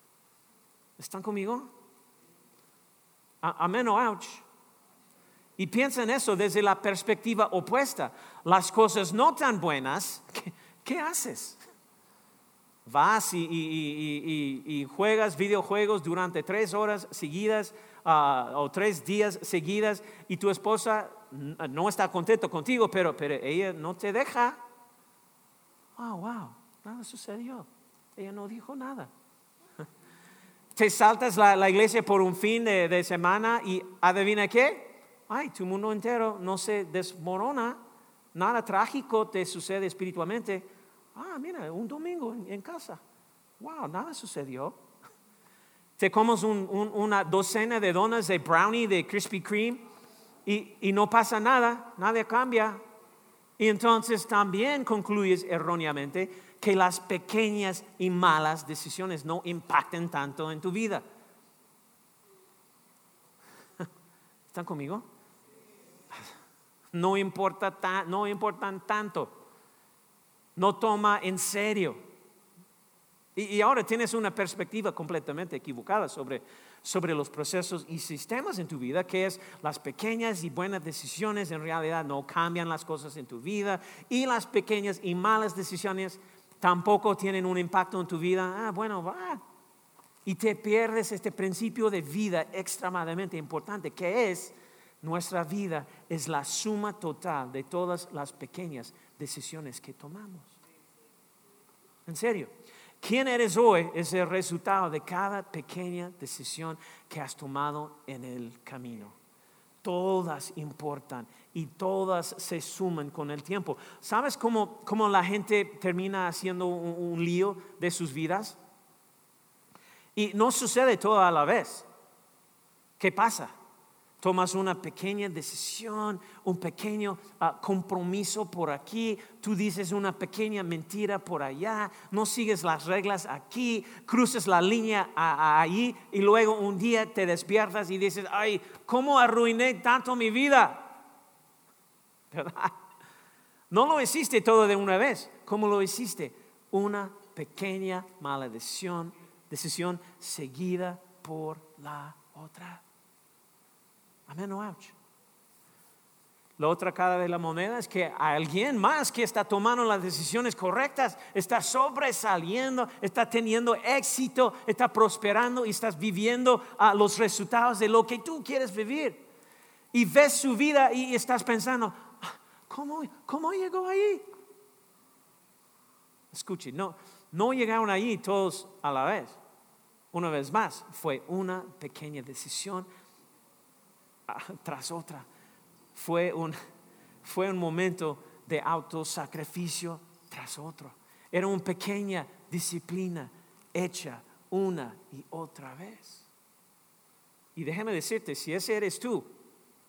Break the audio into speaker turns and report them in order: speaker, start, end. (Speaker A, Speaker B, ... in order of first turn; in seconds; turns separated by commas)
Speaker A: 1.0-1.7, Speaker A: 3.4-4.4, Speaker A: 5.6-11.6, Speaker A: 12.8-24.6, Speaker A: 26.0-29.1, Speaker A: 30.7-37.8, Speaker A: 38.3-43.0, Speaker A: 43.6-44.8, Speaker A: 46.0-49.8, Speaker A: 50.5-52.8, Speaker A: 53.6-61.0, Speaker A: 64.5-65.0, Speaker A: 66.9-69.3, Speaker A: 70.5-72.0, Speaker A: 73.3-89.4, Speaker A: 90.2-100.6, Speaker A: 102.0-109.1, Speaker A: 109.8-118.6, Speaker A: 120.2-121.8, Speaker A: 123.0-123.5, Speaker A: 124.2-140.9, Speaker A: 142.3-142.7, Speaker A: 143.7-152.8, Speaker A: 154.3-154.9, Speaker A: 156.6-169.2, Speaker A: 169.9-174.2, Speaker A: 176.3-179.4, Speaker A: 180.1-182.9, Speaker A: 184.3-185.2, Speaker A: 185.9-186.5, Speaker A: 187.2-196.3, Speaker A: 197.6-199.3